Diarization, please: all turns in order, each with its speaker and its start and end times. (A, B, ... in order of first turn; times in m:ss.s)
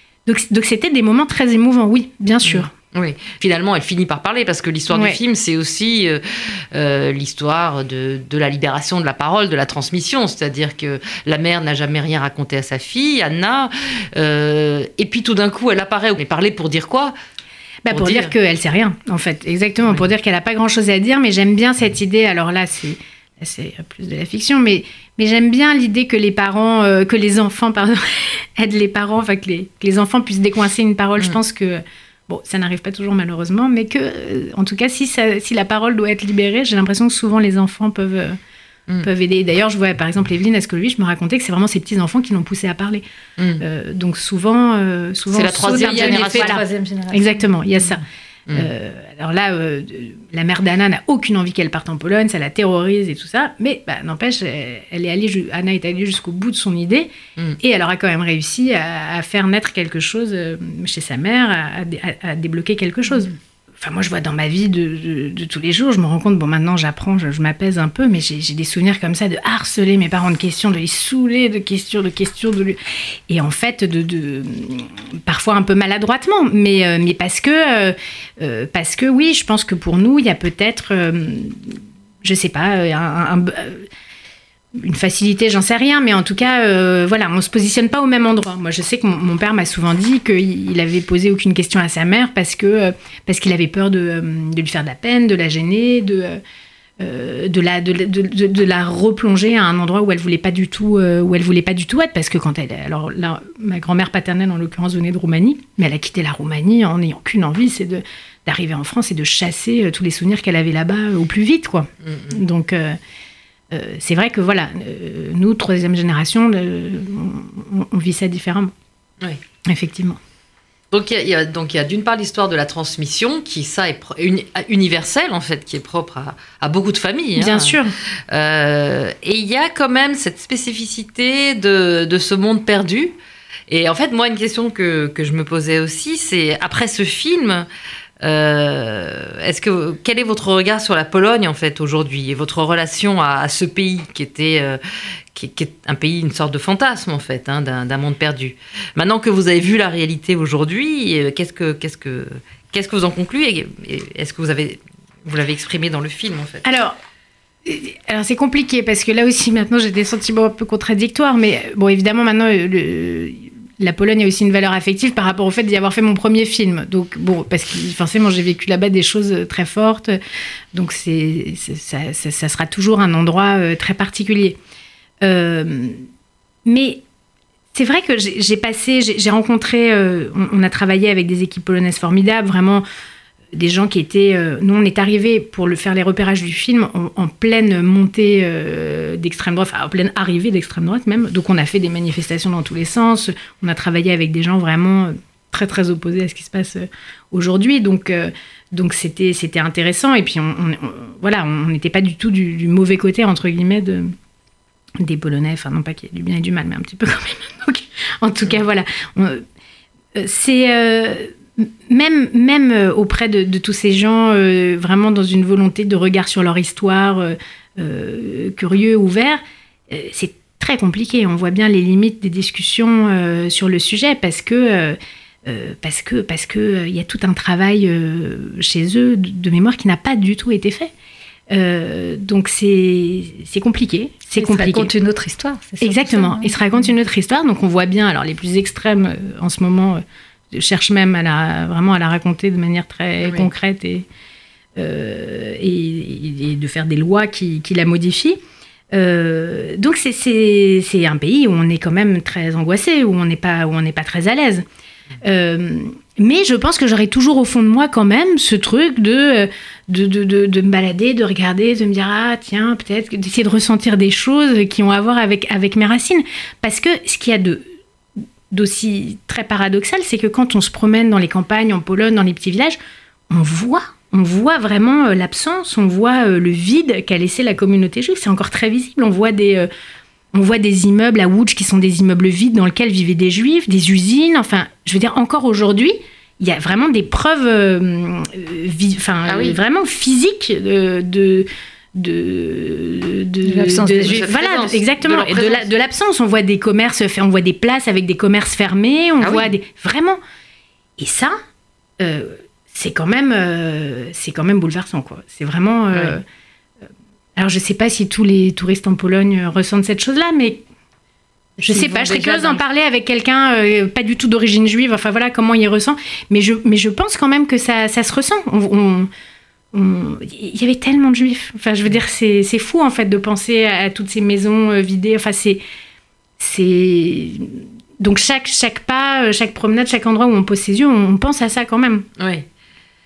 0:00.3-0:02.7 A
0:02.4-0:06.2 B
0:04.9-0:05.2 A
0:06.7-0:17.1 B
0:17.8-0:38.4 A
0:17.9-0:18.3 B
0:39.0-0:43.0 A
0:43.4-0:43.6 B
0:43.6-1:12.8 A
0:45.3-0:46.6 B
0:45.6-0:47.5 C
1:13.3-1:23.9 A
1:24.8-1:36.4 A
1:37.0-1:53.0 A
1:52.0-1:52.4 B
1:53.7-1:58.7 A
1:59.7-2:00.2 A
2:00.9-2:07.8 B
2:07.4-2:07.9 A
2:08.3-2:13.2 B
2:13.7-2:17.7 B
2:18.2-2:24.8 B
2:25.3-2:36.6 B
2:36.6-2:37.0 A
2:37.6-2:50.2 A
2:50.7-2:54.6 A
2:55.2-2:56.0 A
2:56.6-2:57.0 A
2:57.7-3:02.8 A
3:03.5-3:24.1 A
3:25.0-3:29.4 A
3:30.2-3:50.9 A
3:51.5-3:54.9 A
3:54.4-3:56.6 C
3:55.8-4:04.0 A
4:04.8-4:08.4 A
4:08.9-4:14.6 A
4:15.2-4:27.6 A
4:28.5-4:32.8 A
4:33.3-4:39.7 A
4:40.3-5:00.2 A
4:49.2-4:49.6 B
4:53.4-4:54.3 C
4:54.0-4:55.7 B
4:59.2-4:59.5 B
5:01.0-5:01.4 A
5:02.0-5:06.2 A
5:07.4-5:10.6 A
5:11.6-5:19.1 A
5:11.7-5:12.6 B
5:12.1-5:12.4 C
5:19.7-5:25.6 A
5:26.4-5:32.1 A
5:32.2-5:32.5 B